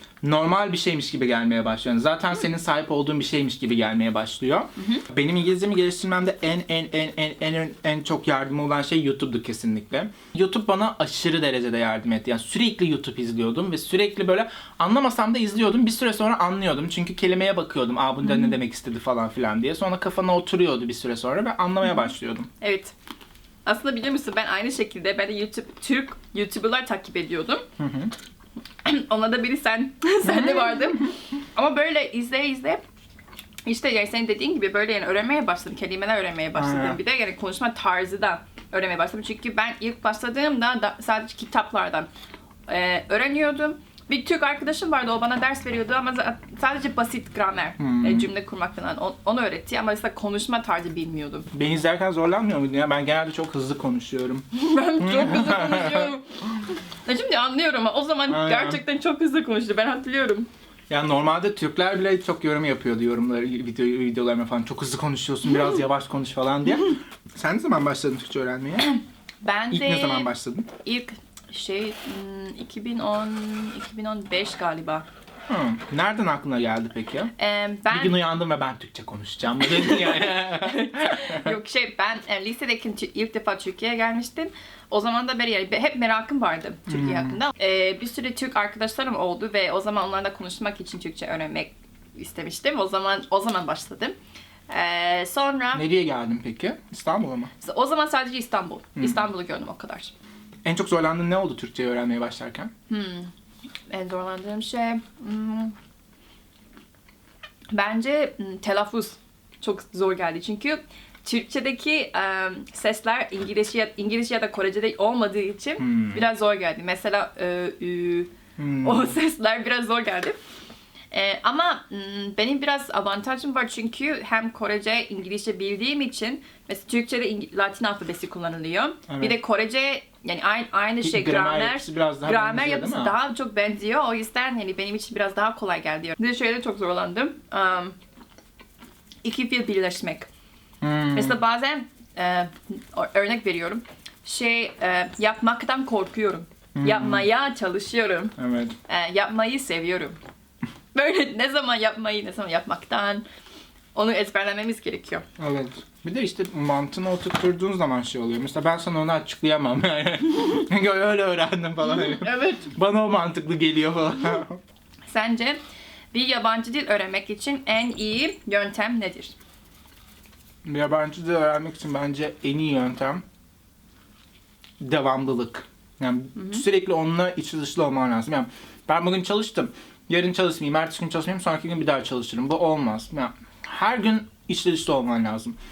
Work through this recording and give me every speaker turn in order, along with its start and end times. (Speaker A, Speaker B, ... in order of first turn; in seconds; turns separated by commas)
Speaker A: 0.2-22.5, Speaker B: 4.8-5.0, Speaker B: 18.2-18.5, Speaker B: 22.6-22.9, Speaker B: 23.6-27.6, Speaker A: 27.8-28.1, Speaker B: 28.8-32.8, Speaker A: 30.2-31.1, Speaker B: 33.6-42.1, Speaker A: 36.5-37.0, Speaker B: 42.7-51.5, Speaker A: 47.8-48.3, Speaker A: 51.5-54.5, Speaker B: 54.5-60.5, Speaker A: 55.0-56.1, Speaker A: 58.3-58.8, Speaker A: 60.9-68.9, Speaker B: 68.8-70.3, Speaker A: 69.7-70.7, Speaker B: 70.8-75.0, Speaker A: 75.5-77.3, Speaker B: 77.4-78.2, Speaker A: 77.9-81.5, Speaker B: 79.6-94.1, Speaker A: 86.9-87.4, Speaker B: 94.7-95.8, Speaker A: 95.7-97.5, Speaker B: 97.6-100.1, Speaker A: 100.6-102.7, Speaker B: 102.9-103.3, Speaker B: 103.9-105.7, Speaker B: 107.7-118.3, Speaker A: 115.8-116.2, Speaker A: 118.6-119.2, Speaker B: 118.8-120.4, Speaker B: 121.1-137.9, Speaker A: 129.1-129.3, Speaker A: 131.0-133.2, Speaker B: 139.2-140.3, Speaker A: 140.8-141.4, Speaker B: 141.1-148.3, Speaker A: 146.7-147.3, Speaker A: 148.4-148.7, Speaker B: 148.9-150.2, Speaker B: 150.9-153.2, Speaker B: 153.9-155.2, Speaker A: 155.4-164.6, Speaker B: 161.8-162.7, Speaker B: 165.1-165.6, Speaker B: 166.1-169.3, Speaker A: 170.6-173.2, Speaker A: 174.8-185.6, Speaker B: 176.3-176.6